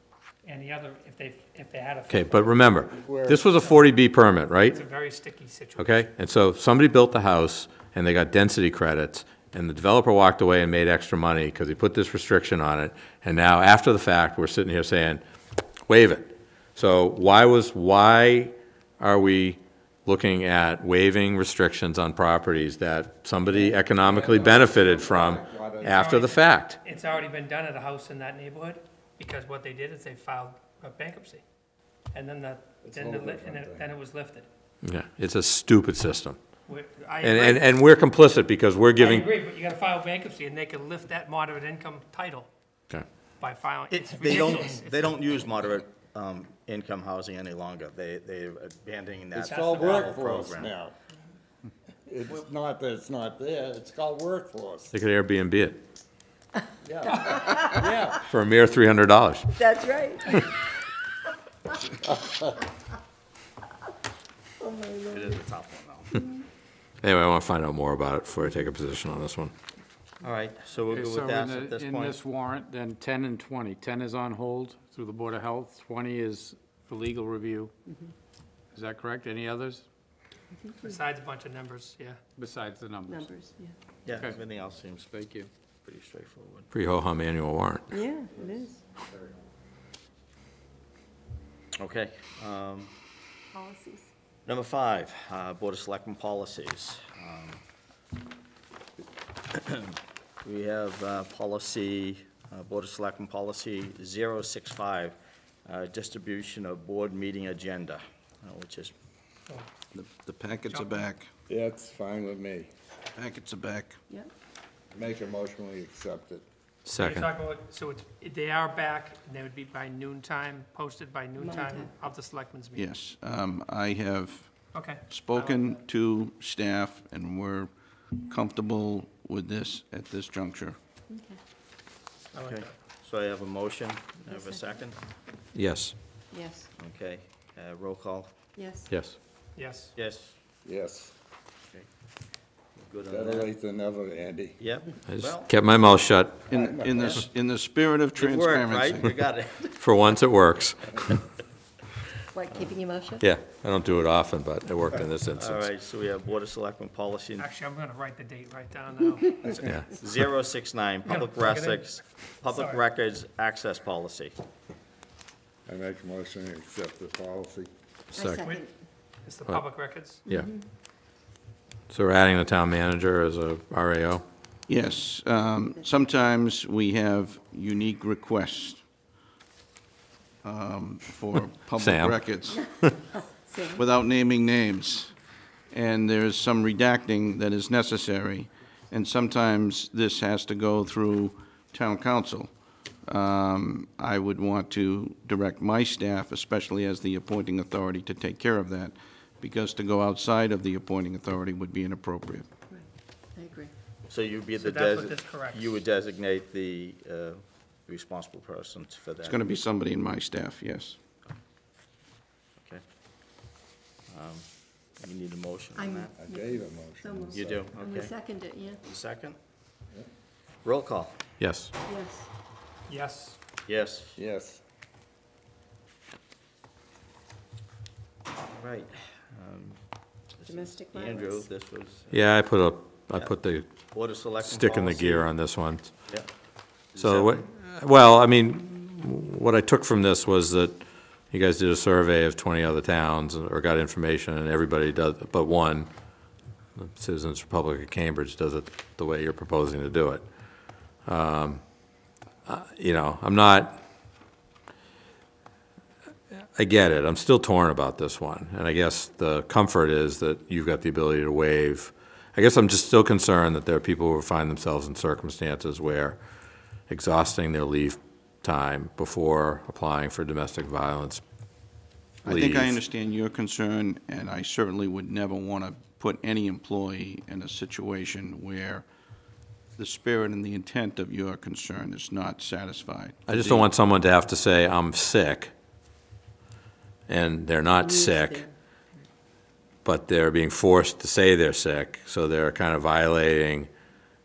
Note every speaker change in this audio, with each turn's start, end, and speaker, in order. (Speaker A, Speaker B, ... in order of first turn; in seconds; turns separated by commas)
Speaker A: 0.4-2.6, Speaker B: 2.1-4.8, Speaker C: 2.9-3.5, Speaker A: 4.7-6.1, Speaker B: 5.8-15.2, Speaker B: 15.9-26.8, Speaker C: 23.5-26.0, Speaker A: 25.8-31.4, Speaker A: 32.1-34.5, Speaker C: 32.8-33.9, Speaker B: 34.8-36.4, Speaker A: 36.7-37.6, Speaker B: 37.2-39.3, Speaker A: 39.0-42.5, Speaker A: 43.4-45.1, Speaker D: 43.9-50.7, Speaker C: 49.3-50.9, Speaker A: 49.4-50.2, Speaker C: 52.1-54.9, Speaker B: 54.9-55.8, Speaker C: 56.8-58.2, Speaker E: 57.2-57.8, Speaker B: 58.2-59.5, Speaker E: 59.5-60.6, Speaker C: 62.0-62.6, Speaker E: 64.6-65.4, Speaker D: 65.1-66.2, Speaker B: 67.0-69.5, Speaker D: 70.2-72.2, Speaker F: 70.9-77.7, Speaker F: 78.7-79.8, Speaker E: 80.5-81.0, Speaker A: 80.8-82.2, Speaker F: 82.4-83.1, Speaker E: 83.1-83.7, Speaker D: 84.0-86.7, Speaker F: 85.1-85.5, Speaker B: 86.7-88.0, Speaker E: 87.9-88.8, Speaker C: 88.3-89.4, Speaker D: 91.8-92.9, Speaker E: 93.5-94.1, Speaker D: 94.5-97.6, Speaker D: 99.5-108.9, Speaker G: 109.9-111.3, Speaker A: 110.7-111.0, Speaker C: 111.5-112.7, Speaker G: 113.2-114.0, Speaker C: 114.9-116.4, Speaker B: 116.8-117.3, Speaker A: 117.0-122.9, Speaker E: 121.4-121.9, Speaker G: 122.8-127.7, Speaker A: 124.7-125.7, Speaker G: 128.2-130.8, Speaker E: 131.1-131.4, Speaker A: 132.3-132.7, Speaker D: 132.4-135.0, Speaker E: 134.3-134.8, Speaker B: 135.5-135.9, Speaker E: 136.3-136.7, Speaker D: 136.8-138.3, Speaker E: 138.5-138.9, Speaker B: 138.9-139.2, Speaker A: 139.6-139.9, Speaker D: 139.9-140.3, Speaker C: 140.6-141.1, Speaker D: 142.8-143.5, Speaker C: 143.1-144.6, Speaker D: 144.6-145.5, Speaker B: 145.1-146.5, Speaker G: 146.5-149.2, Speaker C: 146.5-147.2, Speaker D: 148.2-149.7, Speaker B: 149.8-151.2, Speaker E: 152.3-153.2, Speaker B: 153.2-155.7, Speaker D: 155.4-157.5, Speaker A: 157.4-159.4, Speaker D: 159.4-164.3, Speaker A: 161.1-162.8, Speaker C: 165.7-167.7, Speaker B: 168.1-168.4, Speaker E: 168.1-168.7, Speaker A: 168.4-168.7, Speaker A: 169.2-170.2, Speaker E: 170.2-170.6, Speaker B: 171.9-174.2, Speaker G: 174.7-178.8, Speaker G: 180.4-182.7, Speaker B: 181.8-182.2, Speaker E: 182.5-183.8, Speaker G: 183.7-185.1, Speaker G: 185.7-202.5, Speaker E: 202.7-203.7, Speaker D: 204.1-209.4, Speaker A: 204.6-205.7, Speaker G: 209.2-211.0, Speaker D: 214.1-216.1, Speaker E: 215.7-218.9, Speaker C: 216.2-217.7, Speaker D: 217.3-219.4, Speaker D: 220.6-221.2, Speaker B: 221.4-221.7, Speaker E: 221.8-222.3, Speaker A: 222.9-223.4, Speaker D: 223.7-224.2, Speaker C: 224.2-224.6, Speaker D: 228.5-232.2, Speaker E: 230.4-231.5, Speaker B: 232.1-233.7, Speaker D: 233.9-235.3, Speaker B: 234.4-236.0, Speaker D: 236.9-237.4, Speaker B: 236.9-245.9, Speaker B: 246.8-250.2, Speaker B: 251.0-251.6, Speaker B: 252.4-253.8, Speaker B: 256.5-266.2, Speaker B: 266.9-271.2, Speaker G: 272.2-278.9, Speaker B: 272.2-272.8, Speaker G: 279.8-283.7, Speaker B: 283.3-285.5, Speaker B: 287.1-288.5, Speaker E: 287.7-289.0, Speaker B: 289.8-293.7